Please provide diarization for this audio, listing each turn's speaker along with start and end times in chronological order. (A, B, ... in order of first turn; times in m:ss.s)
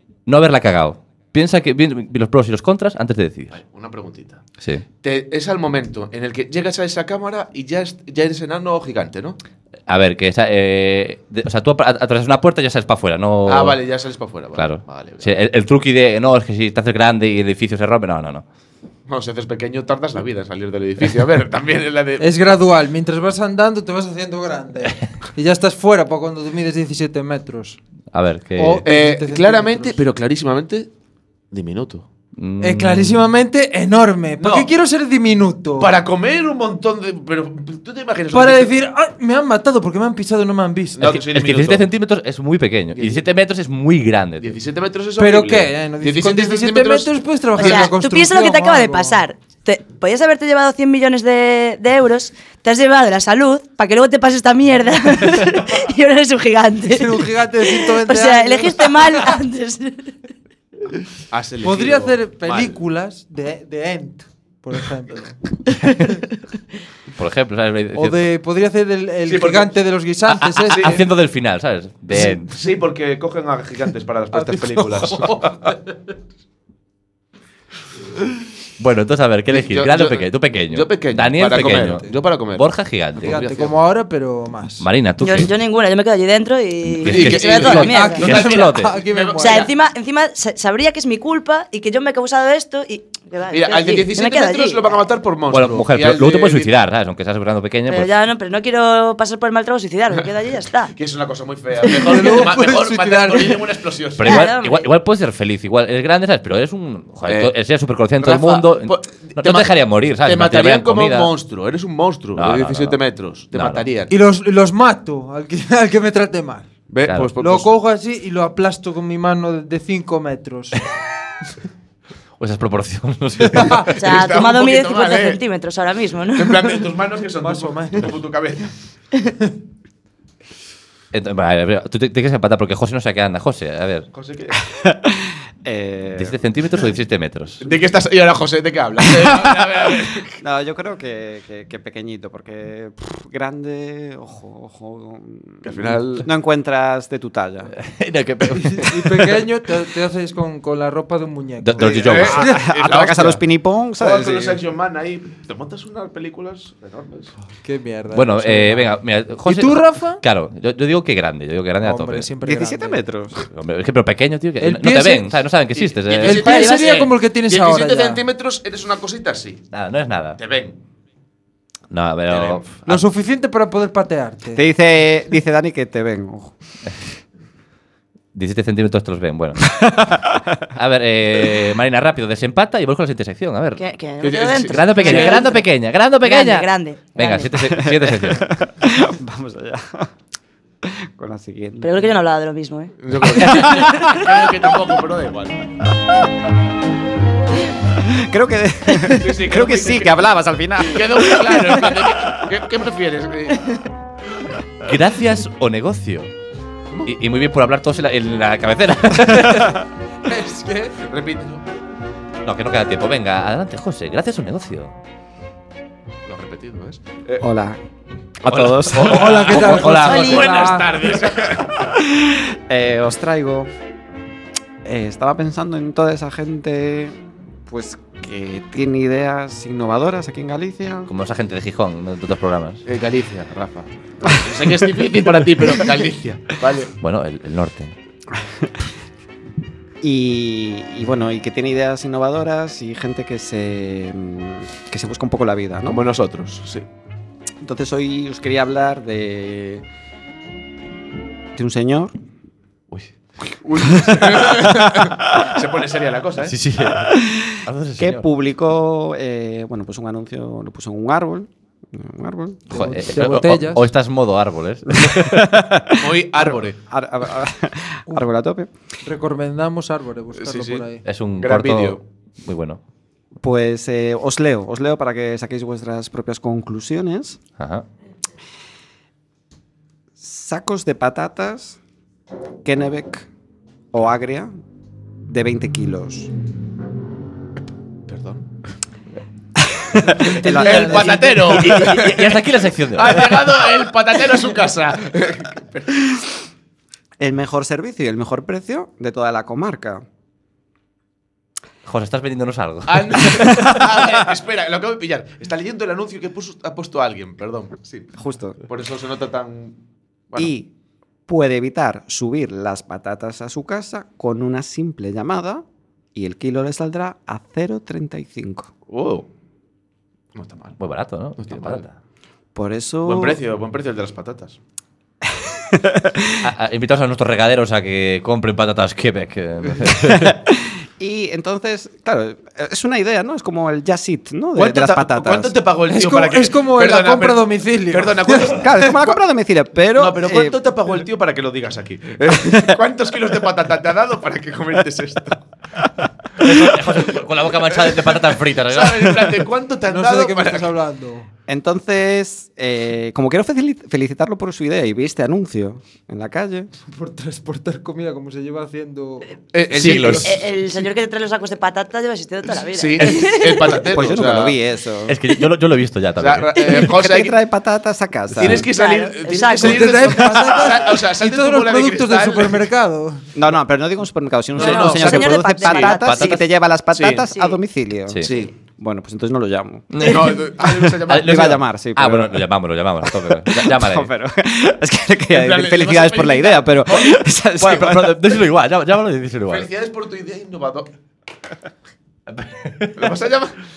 0:00.3-0:03.6 A
0:03.5-0:04.4 B
0:05.0-0:09.4 B
0:09.9-0:13.8 A
0:13.5-0:15.3 B
0:14.6-0:18.4 A
0:19.1-0:22.3 B
0:22.2-0:27.8 C
0:28.1-0:28.8 A
0:28.6-0:30.0 C
0:28.8-0:30.9 B
0:31.5-0:32.0 B
0:32.4-0:33.3 A
0:32.6-0:35.9 C
0:34.4-0:34.7 B
0:35.8-0:38.7 B
0:38.3-0:41.0 C
0:41.0-0:41.8 B
0:41.0-0:44.6 A
0:42.9-0:43.2 B
0:44.4-0:47.9 B
0:45.2-0:49.2 C
0:47.6-1:00.1 D
0:56.9-0:59.4 C
1:01.3-1:02.8 B
1:01.6-1:05.4 C
1:07.2-1:08.2 A
1:07.9-1:11.0 C
1:09.2-1:09.8 B
1:10.3-1:12.5 A
1:10.7-1:11.0 B
1:12.1-1:15.8 B
1:14.3-1:15.3 C
1:18.8-1:23.4 A
1:19.5-1:23.8 B
1:21.6-1:22.2 C
1:23.2-1:24.9 C
1:24.8-1:25.5 A
1:25.2-1:28.2 D
1:27.0-1:29.0 A
1:27.1-1:29.7 B
1:27.8-1:29.7 C
1:29.4-1:34.8 D
1:33.5-1:36.7 B
1:35.5-1:38.1 A
1:37.9-1:40.9 D
1:40.9-1:44.5 B
1:41.8-1:42.4 D
1:42.0-1:43.7 C
1:44.2-1:51.3 A
1:44.2-1:44.9 D
1:47.3-1:47.5 B
1:48.2-1:49.7 B
1:50.2-1:54.1 B
1:52.4-1:53.0 A
1:53.5-1:53.9 A
1:54.1-1:56.7 C
1:56.9-1:57.7 B
1:57.4-2:00.8 C
2:02.4-2:03.9 A
2:03.5-2:03.9 C
2:03.7-2:05.4 B
2:04.0-2:06.8 D
2:06.4-2:08.7 B
2:07.4-2:08.2 C
2:11.1-2:14.1 A
2:14.1-2:14.6 B
2:14.7-2:16.4 E
2:16.2-2:17.6 A
2:17.6-2:20.4 B
2:20.4-2:27.7 E
2:25.6-2:26.3 B
2:27.8-2:29.4 A
2:28.5-2:32.7 C
2:31.6-2:32.5 A
2:31.8-2:33.4 B
2:32.3-2:34.6 E
2:34.0-2:37.3 B
2:37.6-2:38.9 C
2:38.1-2:42.3 A
2:39.4-2:40.2 C
2:41.8-2:43.0 C
2:42.4-2:43.4 E
2:43.5-2:47.0 A
2:44.6-2:45.4 C
2:45.8-2:49.6 B
2:46.2-2:48.2 C
2:49.7-2:50.4 A
2:50.4-2:50.8 B
2:51.9-2:53.0 A
2:52.3-2:52.7 B
2:52.9-2:54.6 C
2:54.6-2:56.5 E
2:58.3-3:00.0 A
2:59.8-3:00.4 E
3:00.7-3:03.8 A
3:03.8-3:05.6 D
3:04.2-3:05.6 B
3:04.7-3:08.5 A
3:06.2-3:07.5 D
3:07.6-3:10.1 E
3:10.8-3:12.0 E
3:11.8-3:14.2 D
3:13.0-3:15.7 B
3:13.4-3:13.8 E
3:18.0-3:22.3 E
3:19.0-3:20.3 B
3:20.8-3:23.7 B
3:24.8-3:26.3 A
3:27.1-3:29.8 A
3:30.3-3:31.0 C
3:31.0-3:31.6 B
3:32.4-3:34.9 A
3:36.3-3:37.4 B
3:37.4-3:37.8 E
3:38.4-3:39.5 E
3:38.5-3:40.7 A
3:38.9-3:41.9 B
3:39.1-3:41.0 C
3:40.1-3:40.4 D
3:41.8-3:43.7 E
3:44.8-3:51.1 E
3:51.1-3:52.8 A
3:52.9-3:56.9 B
3:57.0-3:57.9 A
3:58.3-3:58.7 E
4:00.0-4:06.0 E
4:05.9-4:06.9 B
4:07.6-4:09.8 E
4:11.6-4:12.1 E
4:13.5-4:16.6 B
4:14.0-4:15.1 E
4:16.5-4:18.3 A
4:17.0-4:22.7 E
4:22.7-4:23.9 C
4:22.7-4:25.6 A
4:25.0-4:28.7 E
4:26.0-4:26.8 B
4:29.0-4:31.0 C
4:30.4-4:30.9 B
4:31.0-4:32.8 A
4:31.4-4:32.0 B
4:33.4-4:37.4 E
4:37.6-4:37.8 A
4:40.2-4:41.8 E
4:42.6-4:43.3 E
4:43.9-4:44.5 E
4:45.3-4:46.3 E
4:48.1-4:48.5 B
4:49.6-4:51.4 E
4:50.0-4:51.8 C
4:50.5-4:56.0 B
4:51.4-4:53.6 A
4:57.2-5:00.0 E
5:01.9-5:03.4 A
5:02.9-5:08.1 B
5:08.2-5:08.6 E
5:08.6-5:09.8 B
5:10.4-5:10.7 E
5:11.3-5:18.7 E
5:18.9-5:19.3 B
5:20.4-5:20.8 B
5:20.8-5:21.9 A
5:21.4-5:21.8 B
5:22.6-5:23.4 E
5:23.0-5:24.6 B
5:25.3-5:26.4 E
5:26.4-5:30.4 A
5:30.1-5:35.6 E
5:34.6-5:39.2 B
5:35.9-5:38.8 C
5:38.6-5:40.6 E
5:39.9-5:45.4 B
5:42.3-5:42.8 E
5:46.4-5:49.3 A
5:47.5-5:50.7 B
5:49.9-5:51.3 C
5:51.5-5:56.7 E
5:56.9-5:59.4 C
5:59.5-6:00.5 B
5:59.7-6:00.4 A
6:00.2-6:03.8 D
6:02.7-6:04.6 B
6:03.9-6:05.2 E
6:05.1-6:06.5 A
6:06.2-6:07.4 B
6:06.7-6:08.7 E
6:08.4-6:12.7 B
6:08.5-6:10.2 D
6:09.6-6:13.2 C
6:13.4-6:22.4 E
6:14.6-6:16.0 B
6:14.6-6:16.5 D
6:16.0-6:16.4 A
6:16.9-6:17.3 B
6:17.3-6:17.6 D
6:18.2-6:18.5 B
6:19.9-6:20.5 A
6:20.0-6:21.6 B
6:21.1-6:24.1 A
6:23.0-6:28.4 E
6:25.3-6:27.2 B
6:27.6-6:29.7 A
6:29.5-6:30.9 B
6:32.3-6:33.1 A
6:33.0-6:33.6 B